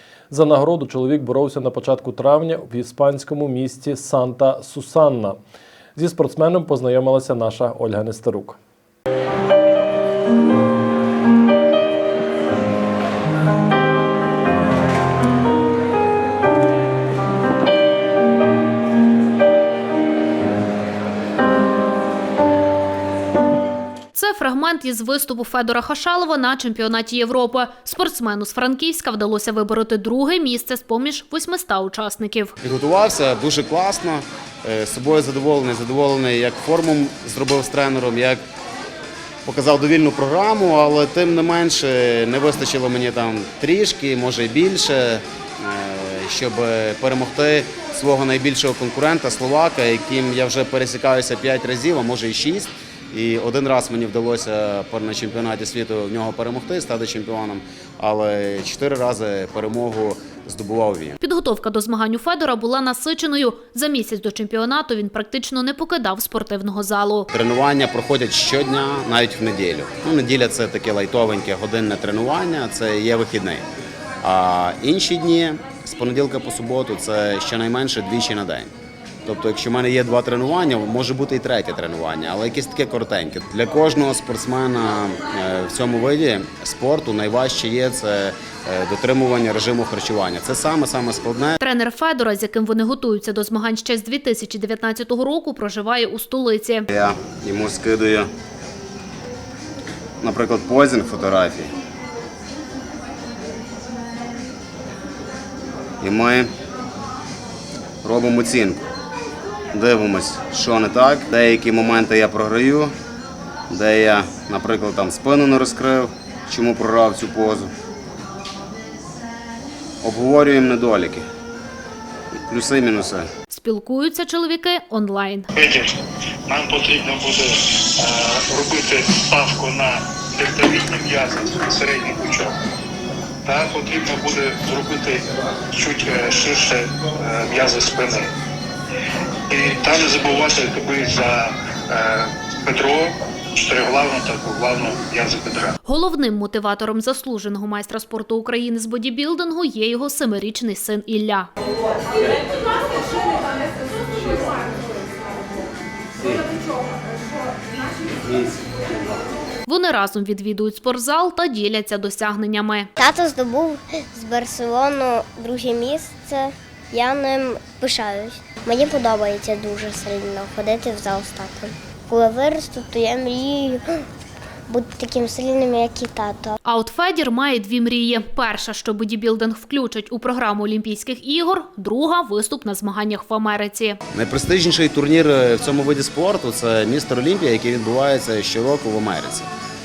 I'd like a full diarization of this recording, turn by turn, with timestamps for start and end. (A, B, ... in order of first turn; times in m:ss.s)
0:00.3-0:05.4 A
0:06.0-0:08.6 A
0:24.1-0:32.5 B
0:32.6-0:38.4 C
0:39.4-1:01.2 C
1:01.2-1:07.3 B
1:07.3-1:13.6 C
1:14.2-1:18.7 C
1:19.2-1:31.6 C
1:31.6-1:36.8 B
1:36.9-1:38.3 C
1:40.2-1:41.7 C
1:46.0-1:46.5 C
1:48.0-1:48.8 C
1:49.7-1:52.9 C
1:53.7-1:57.7 C
2:00.0-2:01.2 C
2:02.5-2:03.3 C
2:03.5-2:05.5 B
2:05.5-2:05.9 D
2:06.5-2:12.5 D
2:13.4-2:15.2 D
2:15.7-2:18.3 D
2:19.5-2:25.8 D
2:25.8-2:31.5 B
2:36.2-2:36.4 C
2:38.2-2:38.9 C
2:39.6-2:42.9 B
2:43.0-2:54.0 E
2:54.7-2:56.6 E
2:56.6-3:04.0 B
3:04.1-3:09.5 C